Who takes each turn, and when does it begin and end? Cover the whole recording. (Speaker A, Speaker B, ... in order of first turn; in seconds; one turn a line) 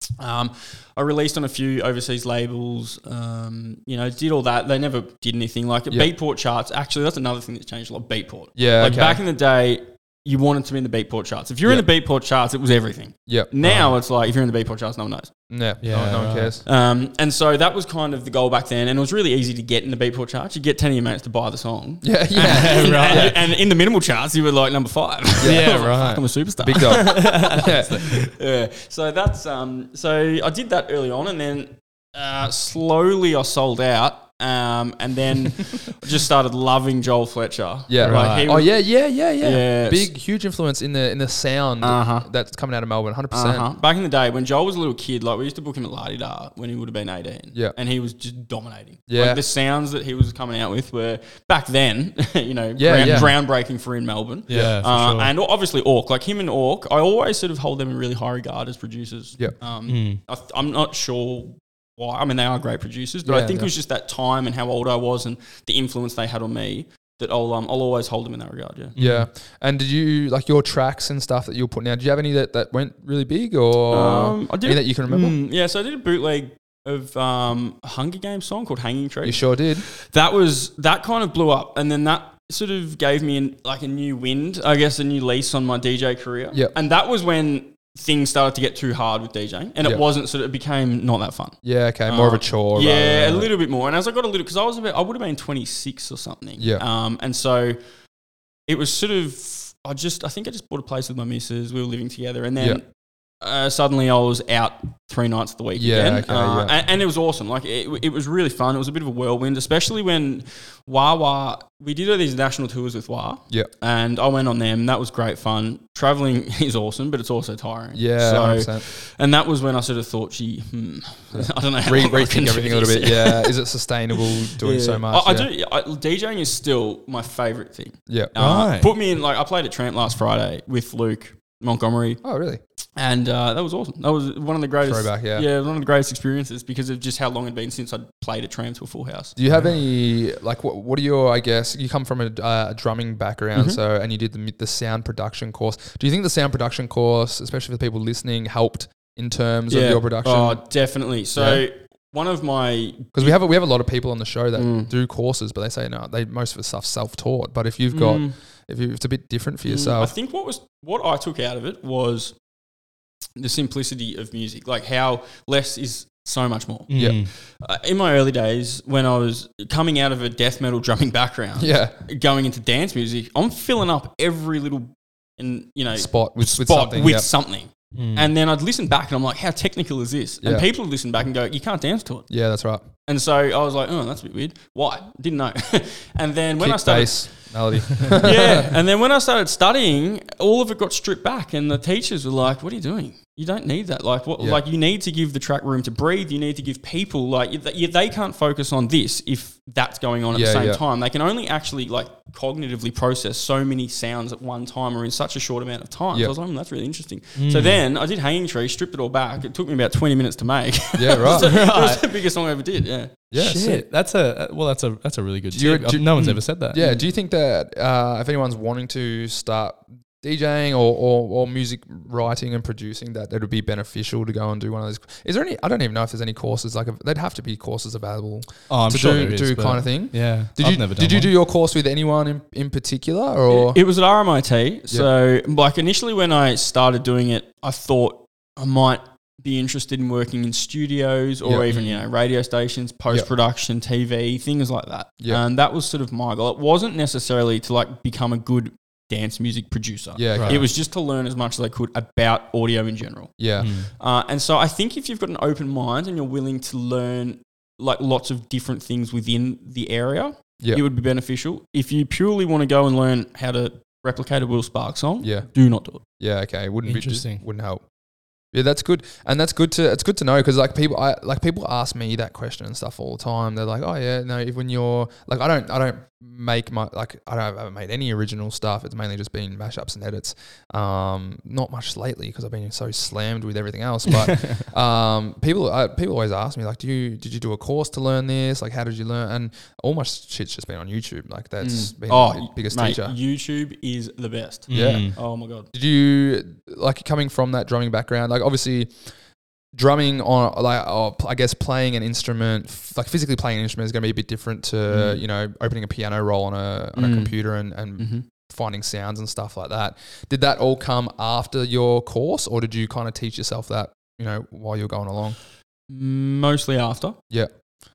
Speaker A: 0.2-15.3
Speaker B: 8.6-9.2
Speaker B: 13.3-13.8
Speaker B: 15.5-16.6
Speaker C: 15.8-16.6
Speaker A: 16.6-38.8
Speaker B: 22.0-23.4
Speaker C: 22.4-23.4
Speaker C: 25.4-27.7
Speaker B: 25.4-25.9
Speaker B: 26.6-28.1
Speaker B: 37.9-43.7
Speaker C: 38.0-38.5
Speaker A: 39.4-40.1
Speaker A: 41.8-42.3
Speaker A: 43.3-69.0
Speaker B: 49.1-49.4
Speaker B: 52.8-53.4
Speaker C: 53.0-53.4
Speaker C: 54.5-55.3
Speaker B: 54.5-54.8
Speaker C: 59.9-60.2
Speaker B: 63.3-63.7
Speaker C: 69.0-69.3
Speaker B: 69.0-75.4
Speaker A: 73.9-97.8
Speaker B: 79.2-79.8
Speaker B: 91.6-93.5
Speaker B: 96.6-96.8
Speaker A: 98.7-102.8
Speaker A: 103.4-123.6
Speaker B: 105.8-106.8
Speaker B: 118.0-118.9
Speaker B: 121.3-125.5
Speaker A: 124.2-132.2
Speaker B: 128.1-128.3
Speaker C: 128.4-128.9
Speaker B: 132.2-132.6
Speaker A: 133.0-139.3
Speaker B: 134.8-135.5
Speaker B: 139.4-150.6
Speaker A: 143.5-143.8
Speaker A: 149.7-153.4
Speaker B: 151.3-151.6
Speaker B: 153.2-160.1
Speaker A: 154.6-154.9
Speaker A: 157.9-158.4
Speaker A: 159.7-162.3
Speaker A: 163.4-182.3
Speaker C: 166.9-167.3
Speaker B: 171.6-171.9
Speaker B: 176.0-177.3
Speaker C: 177.9-178.3
Speaker B: 182.3-182.9
Speaker A: 183.1-187.6
Speaker B: 186.6-188.7
Speaker A: 188.1-213.2
Speaker B: 194.4-194.6
Speaker B: 200.3-200.8
Speaker C: 207.4-207.8
Speaker B: 211.0-211.5
Speaker C: 211.2-212.1
Speaker B: 213.3-213.8
Speaker C: 213.3-216.8
Speaker B: 215.5-233.8
Speaker A: 216.8-217.1
Speaker C: 228.7-231.3
Speaker A: 233.5-266.0
Speaker B: 241.4-241.7
Speaker C: 241.7-242.0
Speaker B: 250.2-250.7
Speaker C: 250.4-250.6
Speaker B: 253.4-253.7
Speaker C: 253.6-253.9
Speaker B: 265.2-265.5
Speaker B: 266.2-267.8
Speaker C: 266.9-267.4
Speaker B: 268.5-293.1
Speaker C: 284.2-284.6
Speaker A: 291.6-295.7
Speaker C: 294.7-295.2
Speaker B: 294.7-299.0
Speaker B: 299.7-315.4
Speaker A: 304.9-305.2
Speaker A: 306.9-307.4
Speaker A: 308.0-308.2
Speaker A: 315.9-317.2